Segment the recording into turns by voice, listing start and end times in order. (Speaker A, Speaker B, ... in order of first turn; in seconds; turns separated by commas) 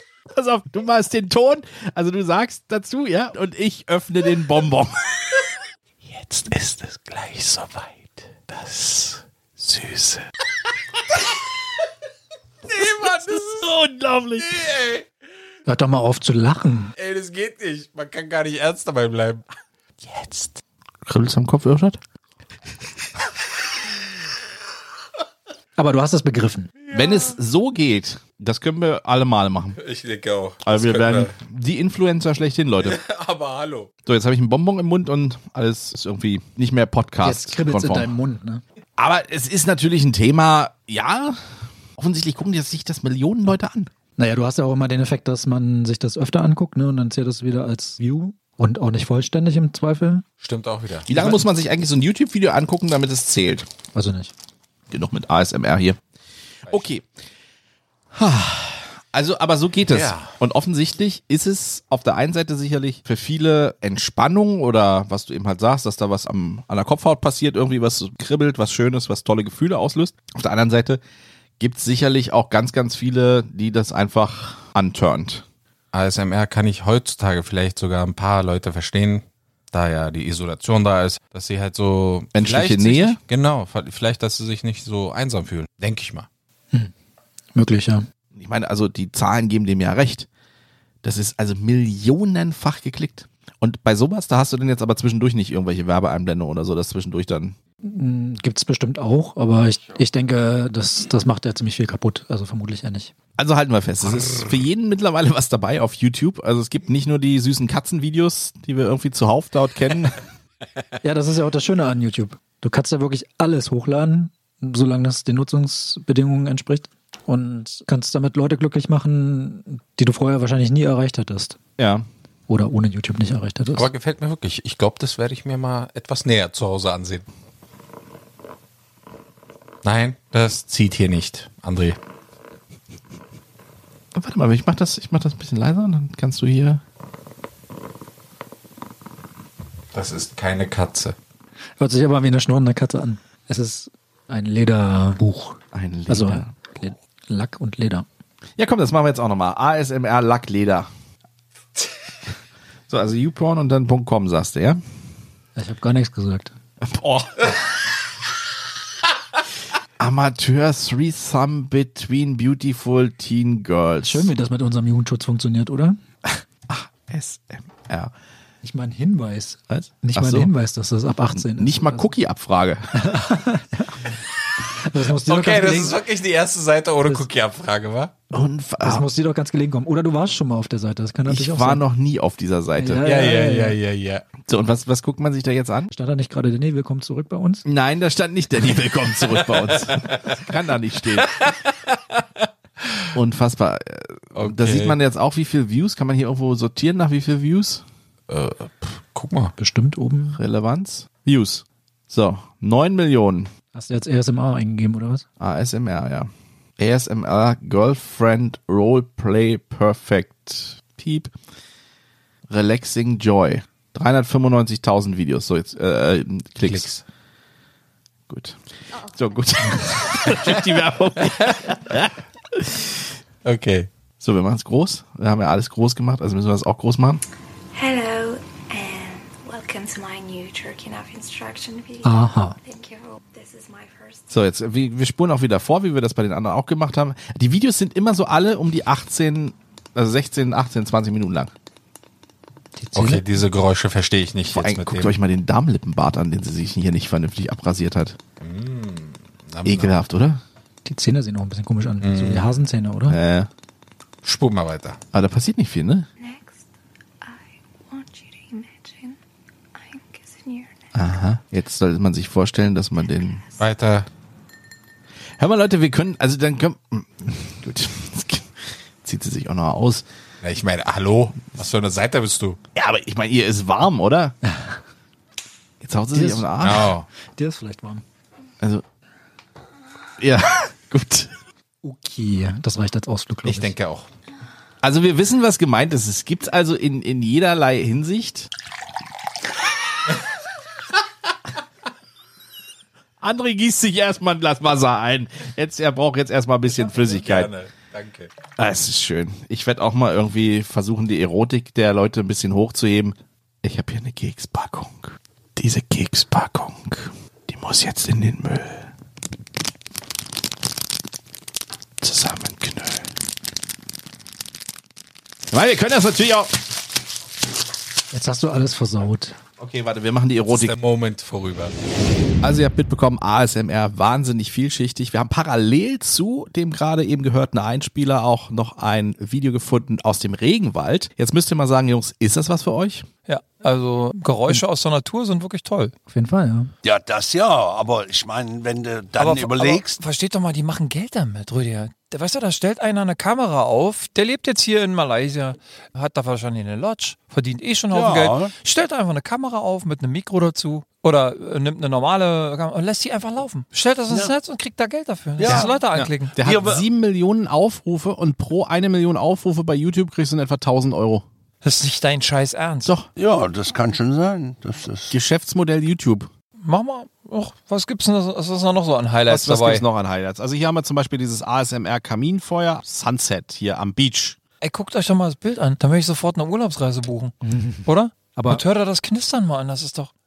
Speaker A: 0.3-5.4, Speaker A: 6.1-7.8, Speaker A: 8.5-10.2, Speaker B: 12.7-13.7, Speaker A: 12.8-14.6, Speaker B: 14.4-15.1, Speaker C: 15.7-16.9, Speaker B: 16.9-19.4, Speaker A: 20.1-22.0, Speaker C: 25.8-26.7, Speaker A: 26.9-29.8, Speaker B: 26.9-27.3, Speaker B: 29.8-31.3, Speaker A: 30.6-33.0, Speaker B: 32.8-33.9, Speaker A: 34.0-38.1, Speaker C: 37.2-38.6, Speaker A: 39.0-41.4, Speaker A: 42.0-43.9, Speaker C: 44.2-50.2, Speaker B: 50.4-51.4, Speaker A: 51.1-53.7, Speaker C: 53.9-54.3, Speaker A: 54.9-56.0, Speaker A: 56.7-57.0, Speaker A: 58.1-71.0, Speaker B: 59.9-60.4, Speaker A: 71.6-75.4, Speaker B: 75.9-86.3, Speaker A: 82.3-83.2, Speaker C: 87.5-88.0, Speaker A: 88.3-90.3, Speaker A: 91.0-97.5, Speaker C: 97.8-103.1, Speaker A: 103.4-110.2, Speaker C: 111.0-121.6, Speaker A: 121.8-122.1, Speaker C: 122.5-123.9, Speaker B: 123.7-127.2, Speaker B: 129.8-132.0, Speaker A: 134.1-136.8, Speaker B: 139.9-141.2, Speaker C: 141.8-148.1, Speaker A: 145.7-146.5, Speaker A: 148.6-150.9, Speaker A: 152.9-154.8, Speaker C: 155.6-156.5, Speaker A: 156.8-157.5, Speaker A: 160.0-164.3, Speaker C: 164.0-166.0, Speaker A: 166.2-168.1, Speaker C: 168.6-172.1, Speaker A: 169.7-170.5, Speaker A: 171.3-173.1, Speaker C: 172.9-174.1, Speaker C: 174.8-176.0, Speaker B: 175.2-178.1, Speaker A: 178.3-179.0, Speaker C: 178.8-181.8, Speaker A: 181.3-183.0, Speaker C: 182.8-183.8, Speaker B: 183.0-184.2, Speaker A: 184.4-185.9, Speaker C: 185.9-187.7, Speaker A: 187.7-191.3, Speaker B: 189.5-190.3, Speaker B: 191.3-193.0, Speaker A: 193.1-197.8, Speaker B: 194.3-195.0, Speaker B: 198.3-199.5, Speaker C: 199.6-200.4, Speaker A: 200.3-203.5, Speaker C: 203.7-205.2, Speaker A: 205.4-211.3, Speaker A: 212.5-216.9, Speaker B: 216.6-217.0, Speaker A: 218.3-222.9, Speaker B: 221.2-221.7, Speaker B: 223.4-223.9, Speaker A: 224.2-227.2, Speaker D: 227.7-234.3, Speaker C: 232.0-232.6, Speaker A: 234.3-241.5, Speaker C: 242.8-243.3, Speaker B: 242.9-245.2, Speaker A: 244.5-248.2, Speaker B: 248.4-249.9, Speaker A: 249.6-250.4, Speaker C: 250.8-253.2, Speaker B: 252.0-252.5, Speaker A: 253.1-253.5, Speaker B: 254.2-255.0, Speaker A: 255.1-256.1, Speaker D: 256.2-256.7, Speaker D: 257.2-259.2, Speaker D: 259.7-260.8, Speaker A: 260.9-263.4, Speaker B: 263.6-264.1, Speaker A: 265.4-270.0, Speaker B: 270.4-272.6, Speaker A: 272.7-274.3, Speaker C: 274.4-274.7, Speaker A: 275.8-276.9, Speaker C: 276.1-276.6, Speaker B: 276.6-277.1, Speaker C: 277.3-278.0, Speaker A: 280.2-281.3, Speaker C: 281.8-283.7, Speaker B: 283.4-284.1, Speaker A: 284.8-288.5, Speaker A: 293.2-297.5, Speaker B: 296.7-298.3, Speaker A: 298.6-308.9, Speaker A: 312.0-313.1, Speaker A: 315.5-316.5, Speaker C: 318.1-319.4, Speaker A: 319.6-320.7, Speaker B: 320.5-321.8, Speaker A: 322.4-333.1, Speaker E: 333.3-335.9, Speaker C: 336.1-336.7, Speaker F: 336.8-340.0, Speaker E: 339.2-356.4, Speaker F: 347.9-348.5, Speaker F: 355.4-355.8, Speaker A: 355.4-361.2, Speaker F: 356.4-356.9, Speaker E: 361.6-362.9, Speaker F: 363.2-365.1, Speaker A: 365.1-366.3, Speaker E: 366.6-369.9, Speaker A: 369.3-374.4, Speaker E: 374.6-377.3, Speaker C: 377.4-378.6, Speaker E: 377.8-380.1